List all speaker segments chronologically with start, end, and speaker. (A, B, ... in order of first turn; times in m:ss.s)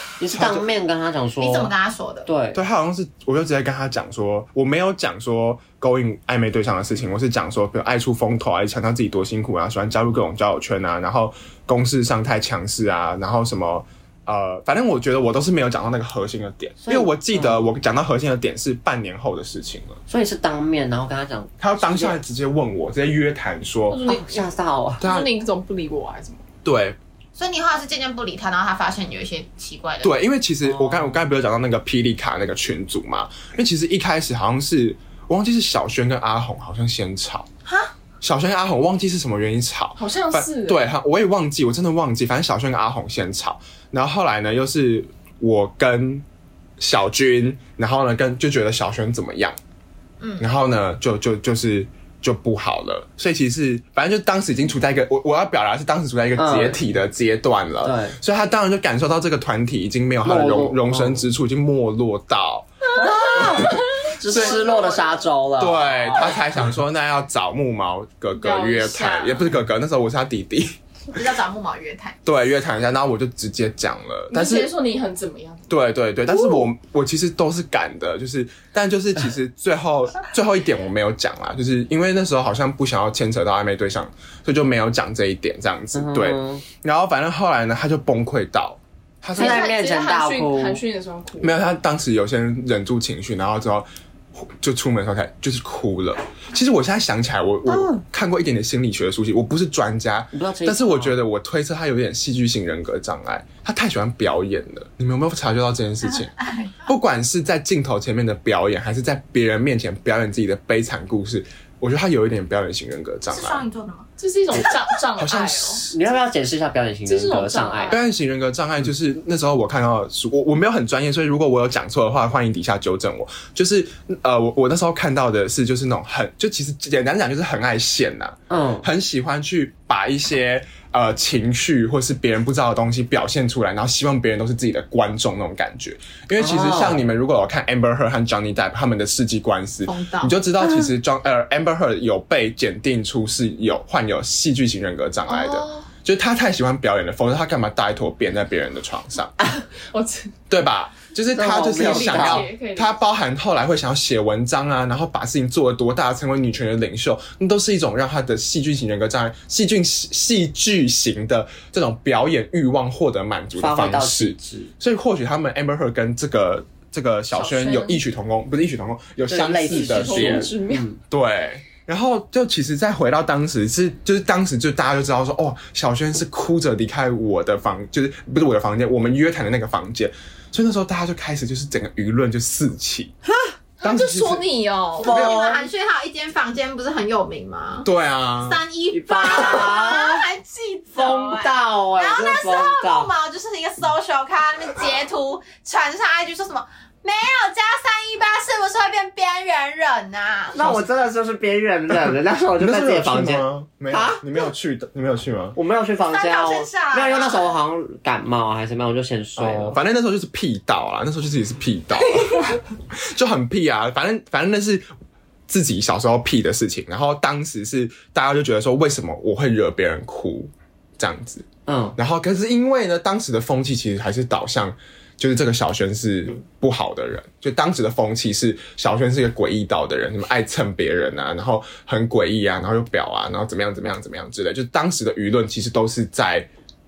0:00.2-0:01.7 A
0:00.2-0:00.7 B
0:01.4-0:02.3 C
0:02.2-0:02.6 A
0:02.5-0:20.0 B
0:16.8-0:17.6 A
0:20.1-0:22.2 A
0:21.6-0:24.0 B
0:23.9-0:26.4 D
0:24.0-0:25.0 A
0:25.0-0:25.3 B
0:26.6-0:27.0 B
0:27.3-0:30.2 C
0:30.0-0:37.5 B
0:30.6-0:31.2 A
0:37.6-0:37.9 C
0:38.2-0:46.2 B
0:40.0-0:40.8 D
0:46.8-0:49.6 B
0:50.2-0:50.5 C
0:50.4-1:04.6 B
0:56.4-0:56.8 A
0:57.8-0:58.2 A
1:00.2-1:01.2 A
1:02.9-1:06.6 A
1:03.0-1:05.2 D
1:05.6-1:10.7 B
1:08.4-1:09.5 D
1:11.1-1:12.2 C
1:12.2-1:14.7 B
1:14.3-1:15.7 D
1:15.7-1:29.7 B
1:25.9-1:26.6 A
1:29.3-1:30.8 A
1:29.3-1:31.5 D
1:31.4-1:46.3 B
1:37.7-1:38.0 A
1:40.3-1:41.2 A
1:46.4-1:46.8 C
1:46.8-1:53.6 B
1:53.3-1:54.1 C
1:54.2-1:55.9 D
1:55.2-1:56.0 B
1:55.9-1:58.0 A
1:57.0-1:58.0 D
1:57.9-2:29.3 B
2:08.5-2:08.8 A
2:16.4-2:17.0 A
2:19.8-2:20.4 C
2:25.3-2:25.9 D
2:29.8-2:30.3 D
2:30.5-2:50.5 B
2:31.3-2:32.5 A
2:31.7-2:33.0 D
2:43.6-2:44.7 A
2:47.3-2:48.0 D
2:49.3-2:51.0 A
2:49.7-2:50.9 D
2:51.1-3:03.1 B
3:03.3-3:03.5 A
3:03.8-3:05.1 D
3:03.8-3:04.4 B
3:05.0-3:07.9 C
3:05.0-3:05.5 B
3:05.0-3:05.7 A
3:07.8-3:08.6 B
3:08.4-3:20.7 C
3:08.9-3:10.2 A
3:10.9-3:13.1 A
3:20.5-3:24.2 A
3:22.6-3:25.6 B
3:25.5-3:29.8 A
3:26.1-3:27.5 C
3:29.4-3:34.9 B
3:35.5-3:41.4 B
3:41.6-3:42.0 A
3:42.0-3:56.5 B